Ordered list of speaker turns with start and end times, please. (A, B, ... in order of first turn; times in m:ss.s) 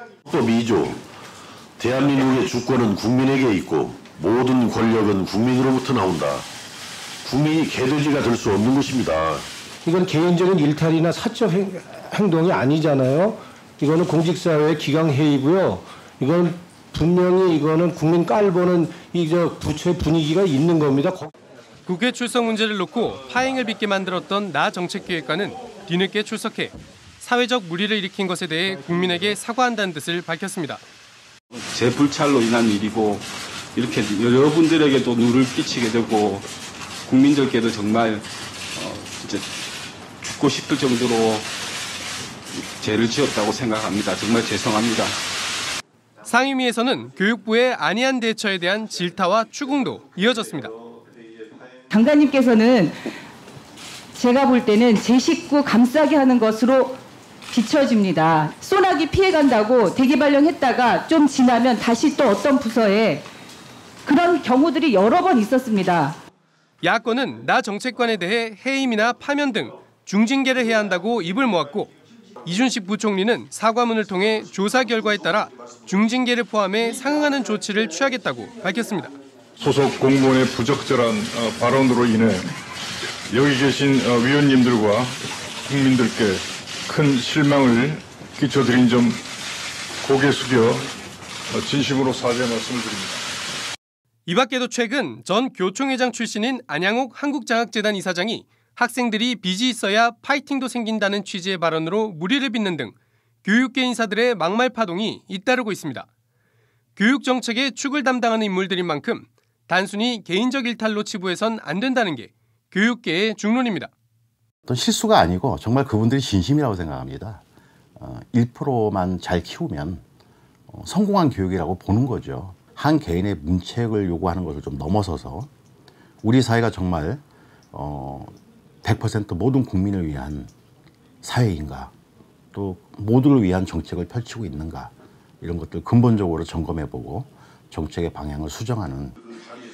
0:00.3-0:01.0 A
0:01.8-0:06.5 A
0:07.2-0:09.5 A
0:09.8-0:21.3 B
0:21.9-0:30.8 C
0:31.6-0:36.5 D
0:37.1-0:39.5 D
0:40.2-0:41.5 D
0:42.5-0:45.2 D
0:46.3-0:50.8 C
0:51.9-0:53.1 E
0:54.1-0:57.0 E
0:57.5-1:03.3 E
1:04.0-1:06.2 E
1:06.8-1:11.9 C
1:12.4-1:19.2 C
1:19.6-1:22.5 F
1:23.3-1:25.1 F
1:25.7-1:29.2 F
1:30.0-1:30.9 F
1:31.5-1:33.2 F
1:34.3-1:46.1 C
1:47.0-1:53.9 C
1:54.7-1:57.4 G
1:58.0-2:00.0 G
2:00.7-2:05.5 G
2:06.2-2:10.5 G
2:11.2-2:11.9 G
2:12.5-2:19.2 G